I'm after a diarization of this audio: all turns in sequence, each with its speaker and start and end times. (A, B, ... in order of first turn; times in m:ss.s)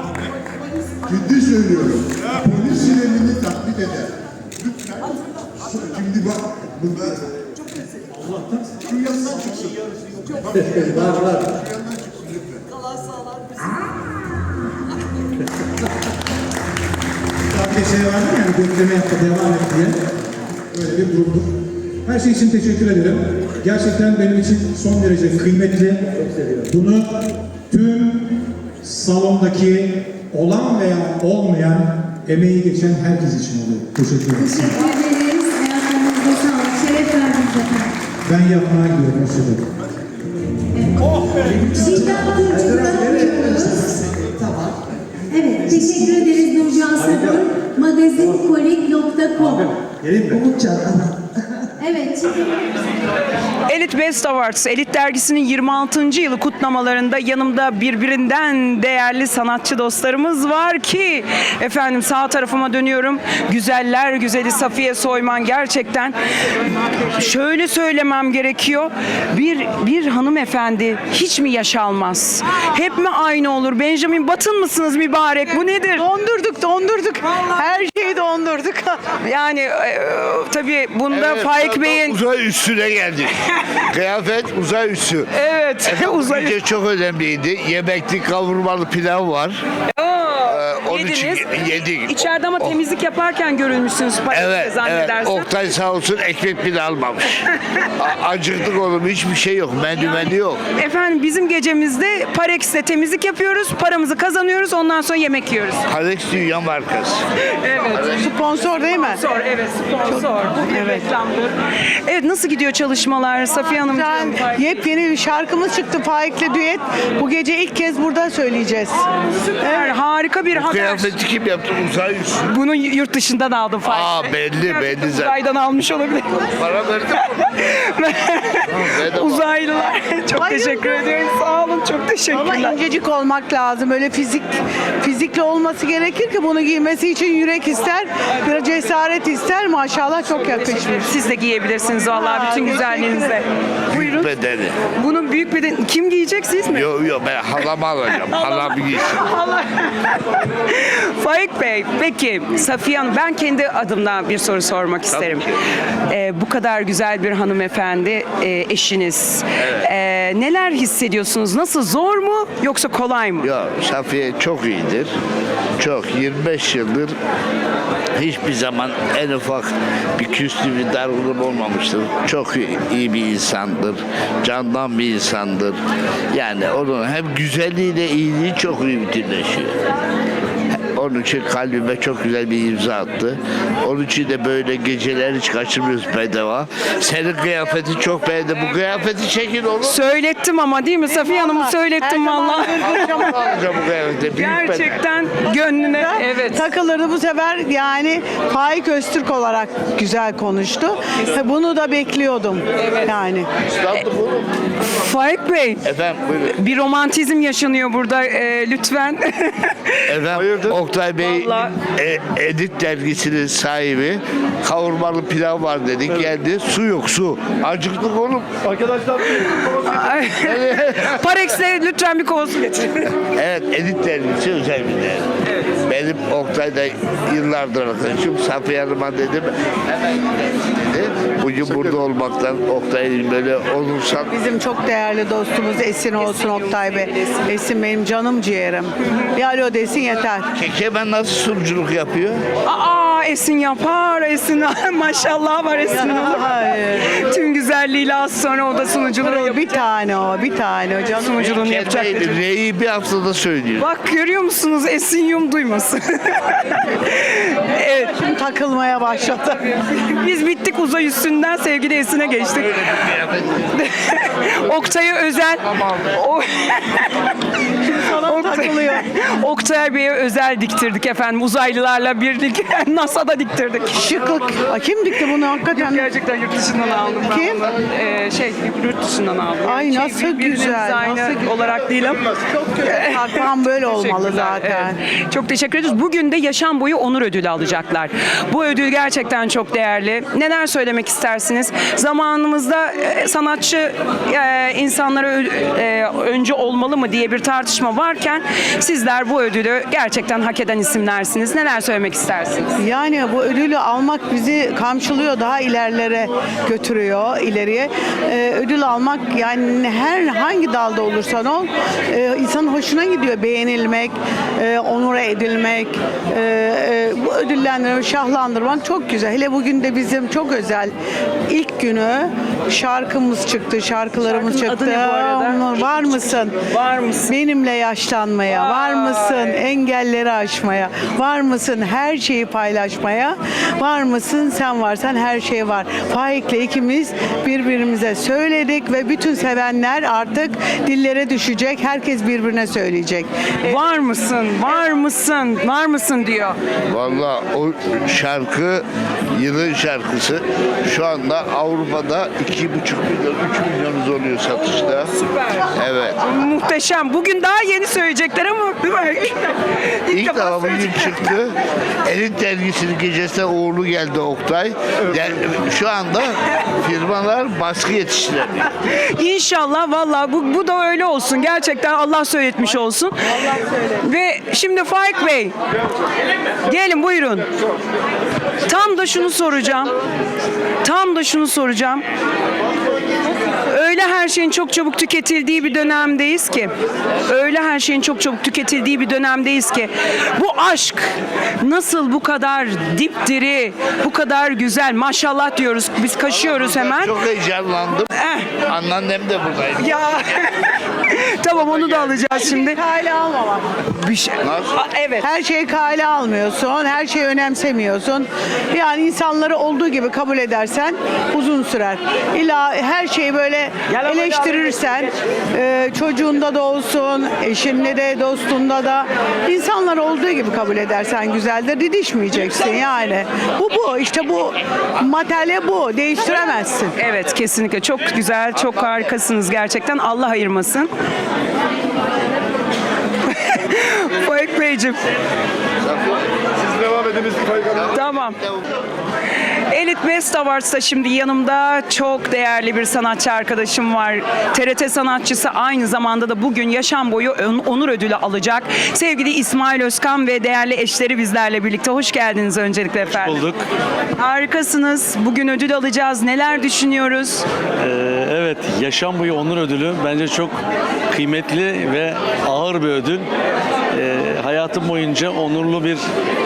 0:01.1-0:07.3 A
0:08.1-0:09.6 B
0:08.9-0:12.7 A
0:10.5-0:11.5 C
0:17.5-0:20.1 B
0:20.7-0:21.6 B
0:22.1-0:34.8 B
0:26.2-0:26.7 C
0:34.4-0:37.9 D
0:38.2-0:39.7 B
0:40.7-0:43.8 D
0:41.4-0:44.9 C
0:45.3-0:49.7 D
0:45.7-0:46.3 C
0:46.9-0:47.5 C
0:48.2-0:48.5 C
0:49.4-0:51.2 C
0:51.8-0:52.5 D
0:53.7-1:06.2 E
1:06.9-1:16.1 E
1:16.0-1:19.0 F
1:19.2-1:22.2 E
1:21.1-1:23.3 G
1:23.9-1:25.3 G
1:25.3-1:26.6 E
1:25.8-1:29.6 G
1:30.0-1:35.5 E
1:30.5-1:32.8 G
1:34.3-1:37.5 G
1:38.0-1:40.6 G
1:40.8-1:45.8 E
1:45.9-1:47.2 G
1:47.6-1:48.2 E
1:48.1-1:49.2 F
1:48.9-1:54.6 E
1:50.1-1:51.0 F
1:53.8-2:00.0 F
1:59.4-2:01.2 E
2:00.5-2:02.5 G
2:02.5-2:06.6 E
2:03.8-2:05.4 G
2:06.5-2:07.3 G
2:07.2-2:12.8 E
2:08.6-2:09.5 G
2:10.4-2:11.0 F
2:12.3-2:21.1 F
2:20.9-2:24.3 E
2:22.1-2:23.4 F
2:23.9-2:24.8 G
2:25.0-2:26.9 E
2:26.7-2:29.3 G
2:27.6-2:35.5 E
2:35.1-2:35.5 G
2:36.1-2:43.5 E
2:39.6-2:39.9 G
2:43.4-2:45.1 G
2:45.8-2:47.1 G
2:48.2-2:55.8 G
2:56.3-2:59.7 G
3:01.0-3:10.0 G
3:09.8-3:13.3 E
3:11.1-3:13.4 F
3:13.3-3:15.0 G
3:14.4-3:16.7 E
3:16.0-3:23.5 F
3:22.8-3:23.1 E
3:23.7-3:24.6 G
3:24.9-3:25.8 E
3:25.8-3:26.6 G
3:26.6-3:30.0 E
3:30.1-3:38.6 G
3:30.3-3:30.7 C
3:31.2-3:31.7 E
3:38.6-3:39.6 C
3:39.6-3:43.1 E
3:40.3-3:41.6 G
3:43.3-3:54.3 G
3:54.3-4:00.5 F
3:56.2-3:57.5 E
4:00.6-4:02.4 G
4:02.6-4:09.8 E
4:05.9-4:07.2 F
4:09.1-4:11.4 F
4:11.1-4:12.4 E
4:11.4-4:13.9 G
4:13.8-4:18.2 E
4:18.2-4:19.7 F
4:19.9-4:23.1 E
4:22.6-4:23.7 G
4:23.7-4:27.2 E
4:27.8-4:29.0 F
4:28.2-4:34.2 E
4:33.9-4:36.1 F
4:35.7-5:02.8 E
4:37.2-4:37.6 F
4:39.6-4:41.4 F
4:42.6-4:45.0 F
5:02.8-5:20.9 F
5:21.5-5:26.6 F
5:24.2-5:27.4 E
5:27.3-5:43.8 F
5:28.5-5:29.6 E
5:43.6-5:46.6 E
5:46.9-5:48.8 G
5:49.4-5:55.1 G
5:55.1-5:55.7 E
5:55.8-5:56.2 G
5:56.2-6:01.2 E
6:00.1-6:08.6 G
6:08.9-6:15.6 E
6:16.6-6:17.5 E
6:18.6-6:19.9 E
6:20.8-6:22.0 E
6:23.6-6:26.7 E
6:27.2-6:37.2 E
6:36.3-6:38.1 G
6:38.1-6:38.5 E
6:38.7-6:40.0 G
6:39.8-6:42.8 E
6:42.2-6:43.7 F
6:43.9-6:45.3 E
6:44.4-6:44.8 G
6:45.2-7:06.9 F
6:53.9-6:55.1 E
7:07.0-7:10.9 E
7:08.5-7:09.1 G
7:13.2-7:15.0 E
7:15.8-7:18.6 G
7:17.9-7:18.4 E
7:19.7-7:33.4 E
7:33.0-7:33.6 H
7:34.2-7:37.5 E
7:37.8-7:40.6 H
7:41.1-7:43.3 H
7:43.9-7:46.0 H